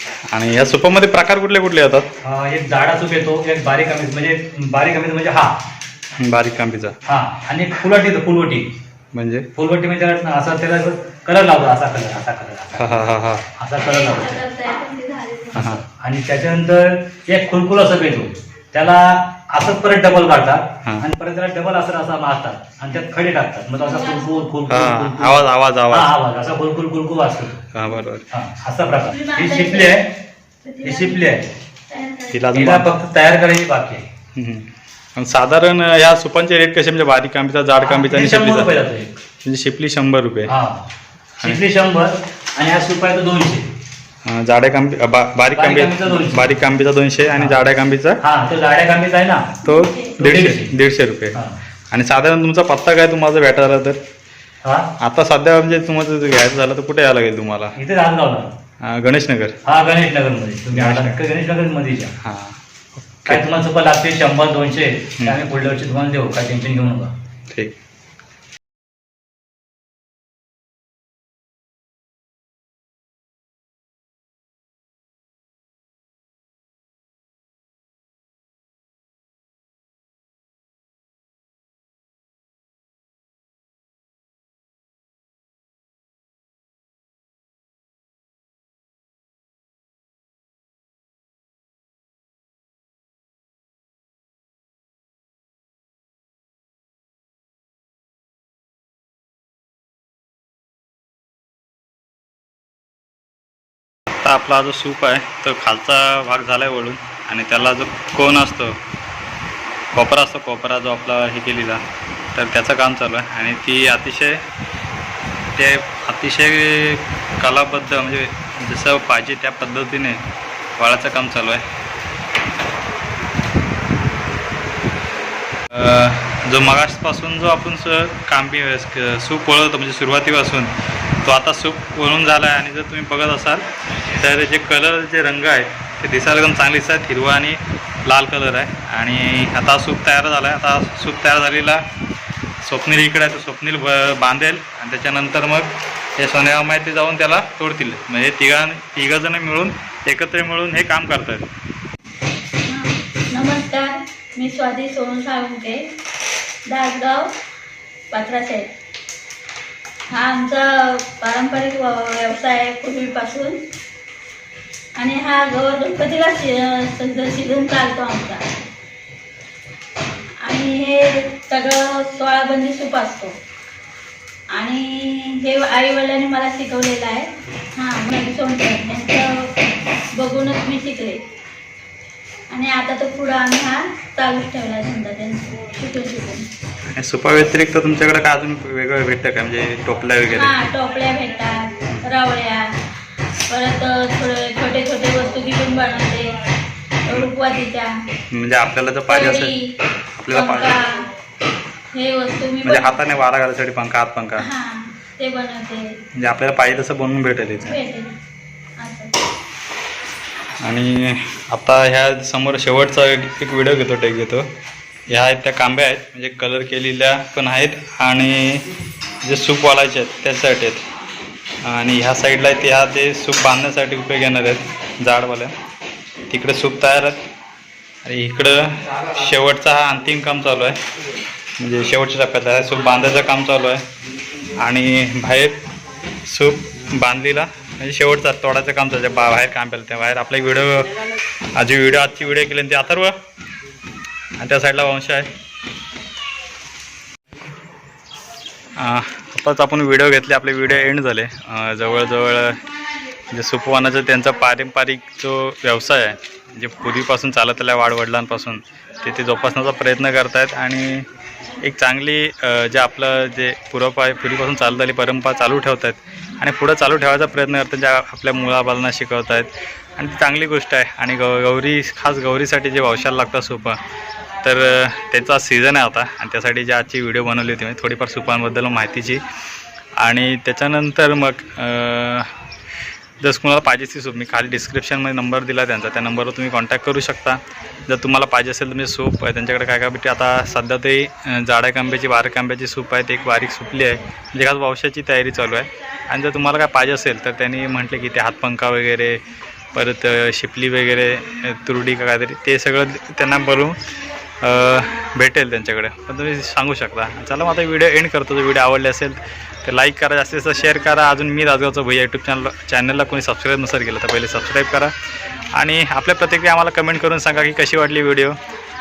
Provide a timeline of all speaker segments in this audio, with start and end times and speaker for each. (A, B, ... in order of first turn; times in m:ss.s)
0:00.3-0:02.1 A
0:02.2-0:05.5 B
0:06.2-0:07.0 A
0:07.0-0:08.7 B
0:09.1-0:09.5 A
0:09.5-0:13.0 B
0:12.8-0:13.5 A
0:13.6-0:14.4 B
0:13.8-0:15.7 C
0:15.5-0:15.8 A
0:15.5-0:27.6 B
0:23.8-0:24.4 C
0:24.7-0:26.1 A
0:27.7-0:28.2 A
0:28.3-0:30.1 B
0:29.1-0:30.0 C
0:30.6-0:31.3 C
0:30.8-0:31.5 B
0:31.9-0:32.4 C
0:32.3-0:32.9 A
0:32.5-0:34.0 B
0:34.3-0:38.7 A
0:37.8-0:39.1 B
0:39.4-0:40.5 A
0:40.4-0:40.9 B
0:41.4-0:43.7 B
0:44.2-0:48.2 A
0:45.5-0:46.5 B
0:47.3-0:47.6 B
0:48.2-0:49.6 B
0:49.6-0:51.4 A
0:49.6-0:50.2 C
0:50.2-0:50.7 B
0:51.9-0:54.0 A
0:54.6-0:54.9 B
0:55.0-0:57.7 A
0:57.8-0:58.5 B
0:58.8-0:59.6 A
0:59.6-1:02.1 B
1:00.7-1:01.2 A
1:02.2-1:02.6 A
1:03.3-1:07.1 B
1:07.5-1:07.8 A
1:44.2-1:48.8 A
1:49.9-1:51.8 A
1:52.3-1:54.4 A
1:55.5-2:00.2 A
2:00.8-2:01.6 A
2:05.7-2:21.8 A
2:22.6-2:31.5 A
2:32.7-2:35.8 C
2:36.7-2:37.3 C
2:38.1-2:38.7 C
2:40.1-2:43.6 C
2:45.0-2:48.4 C
2:50.4-2:53.4 C
2:54.6-2:59.5 C
3:00.1-3:01.2 C
3:02.5-3:06.5 C
3:06.9-3:10.5 A
3:10.3-3:12.7 C
3:13.5-3:16.3 C
3:17.0-3:17.9 C
3:18.3-3:19.5 A
3:19.1-3:19.7 C
3:20.2-3:20.8 A
3:20.3-3:21.0 C
3:21.9-3:23.0 C
3:22.6-3:24.4 A
3:24.4-3:25.9 C
3:26.2-3:27.8 A
3:27.6-3:28.1 C
3:28.8-3:29.1 C
3:30.6-3:34.5 A
3:35.1-3:38.7 A
3:39.2-3:40.8 A
3:41.6-3:45.5 A
3:46.3-3:47.2 A
3:48.0-3:50.8 A
3:51.6-3:53.8 A
3:54.5-3:55.6 A
3:56.2-4:01.0 A
4:01.5-4:03.2 A
4:04.4-4:05.3 A
4:08.8-4:12.6 A
4:13.3-4:21.1 A
4:21.6-4:33.8 A
4:34.4-4:39.2 A
4:40.0-4:42.3 A
4:43.2-4:59.2 A
4:59.7-5:03.8 A
5:04.4-5:14.9 A
5:15.5-5:18.4 A